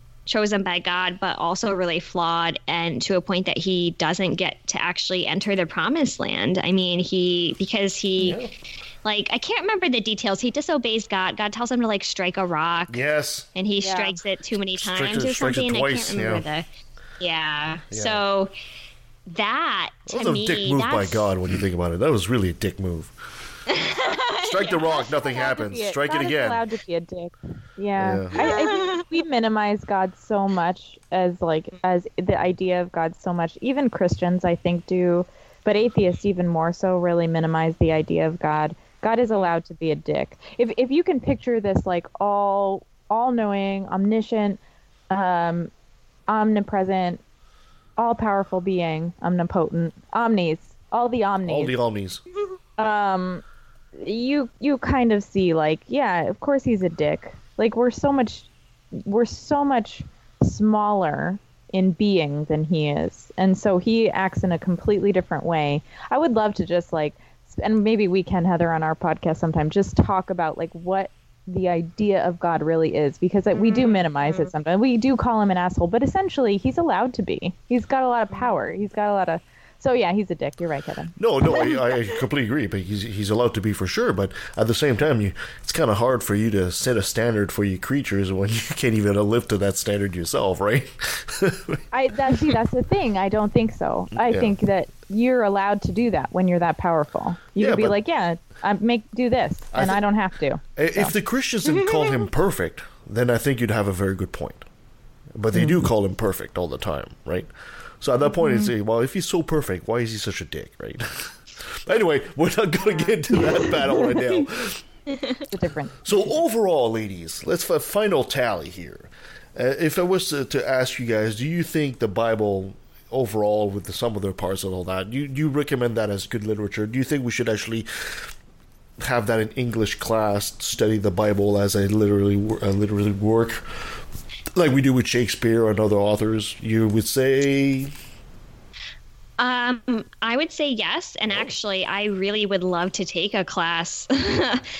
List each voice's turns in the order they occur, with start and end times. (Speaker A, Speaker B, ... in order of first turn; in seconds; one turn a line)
Speaker A: 0.3-8.4
Speaker B: 8.2-8.5
Speaker A: 9.0-13.0
Speaker B: 12.9-13.5
Speaker A: 13.5-16.6
Speaker C: 13.8-14.2
Speaker B: 14.8-16.4
Speaker A: 17.2-18.5
Speaker B: 17.9-18.2
Speaker A: 19.2-21.3
Speaker B: 20.1-23.1
Speaker A: 23.7-25.2
Speaker B: 24.4-26.6
Speaker C: 25.2-44.6
Speaker B: 28.0-28.4
Speaker A: 28.3-29.2
Speaker C: 45.1-45.7
Speaker C: 46.3-47.2
Speaker C: 48.0-51.7
Speaker B: 51.4-52.2
Speaker C: 52.8-53.4
Speaker C: 54.0-81.1
Speaker A: 73.5-74.5
Speaker A: 78.3-78.7
Speaker B: 81.2-91.8
Speaker C: 91.9-101.1
Speaker B: 94.2-94.5
Speaker B: 97.6-98.0
Speaker B: 99.7-100.0
Speaker B: 100.8-104.7
Speaker A: 101.6-102.2
Speaker B: 105.3-107.5
Speaker C: 105.5-105.9
Speaker B: 108.0-114.8
Speaker C: 113.3-114.2
Speaker A: 115.1-115.4
Speaker C: 115.5-116.3
Speaker B: 116.0-128.3
Speaker B: 129.0-133.6
Speaker B: 134.5-137.9
Speaker A: 139.4-144.6